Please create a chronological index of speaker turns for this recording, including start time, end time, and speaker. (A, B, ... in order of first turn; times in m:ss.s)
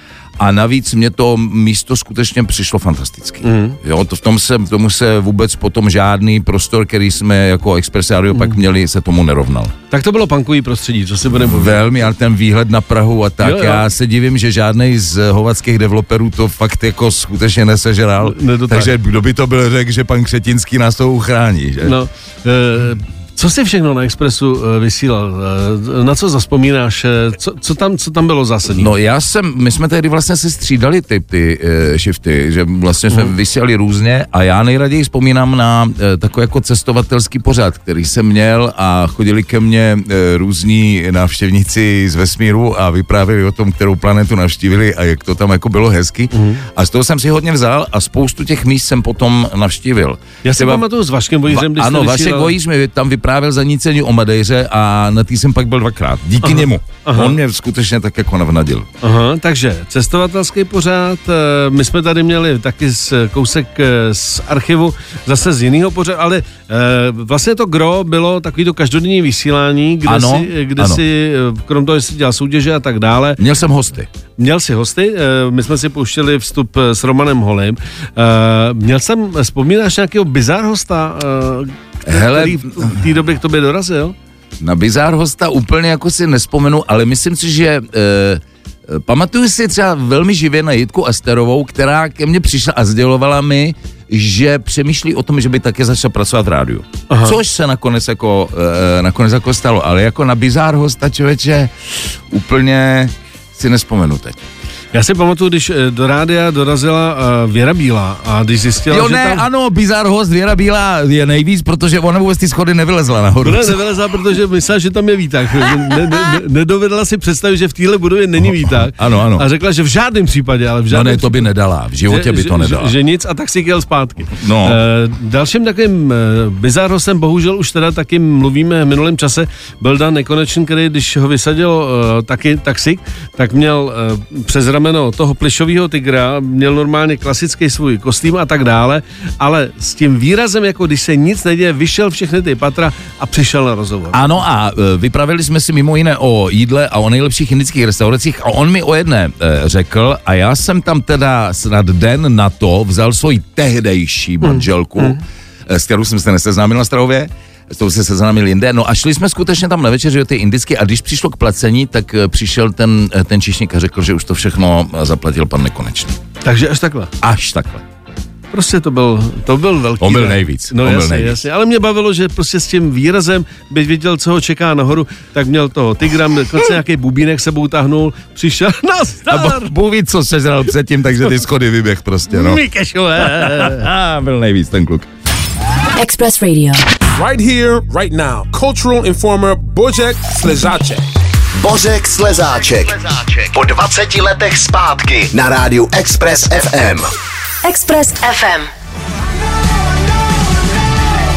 0:00.4-0:09.7 A
0:03.4-0:03.8 B
0:09.9-0:11.9 B
0:11.3-0:22.0 A
0:13.4-0:13.8 B
0:18.2-0:19.0 B
0:21.8-0:28.9 B
0:28.7-0:50.8 A
0:46.3-0:46.6 B
0:50.4-0:52.6 B
0:51.5-0:58.9 A
0:56.4-0:57.4 B
0:59.0-1:13.4 B
1:10.1-1:11.0 A
1:13.4-1:14.1 A
1:14.4-1:24.2 B
1:22.1-1:23.0 A
1:24.6-1:44.4 A
1:37.1-1:37.4 B
1:44.9-1:49.4 B
1:48.9-1:53.8 A
1:53.4-2:01.5 B
1:58.4-1:59.4 A
2:00.9-2:02.9 A
2:02.1-2:24.2 B
2:04.4-2:04.8 A
2:24.1-2:46.2 A
2:34.4-2:35.2 B
2:46.4-2:47.1 B
2:47.2-2:47.8 A
2:48.5-2:59.7 B
2:50.0-2:51.4 A
2:59.3-3:02.6 A
3:02.3-3:03.9 B
3:03.2-3:05.1 A
3:06.0-3:06.8 C
3:07.2-3:11.0 D
3:11.6-3:17.1 E
3:17.6-3:18.7 C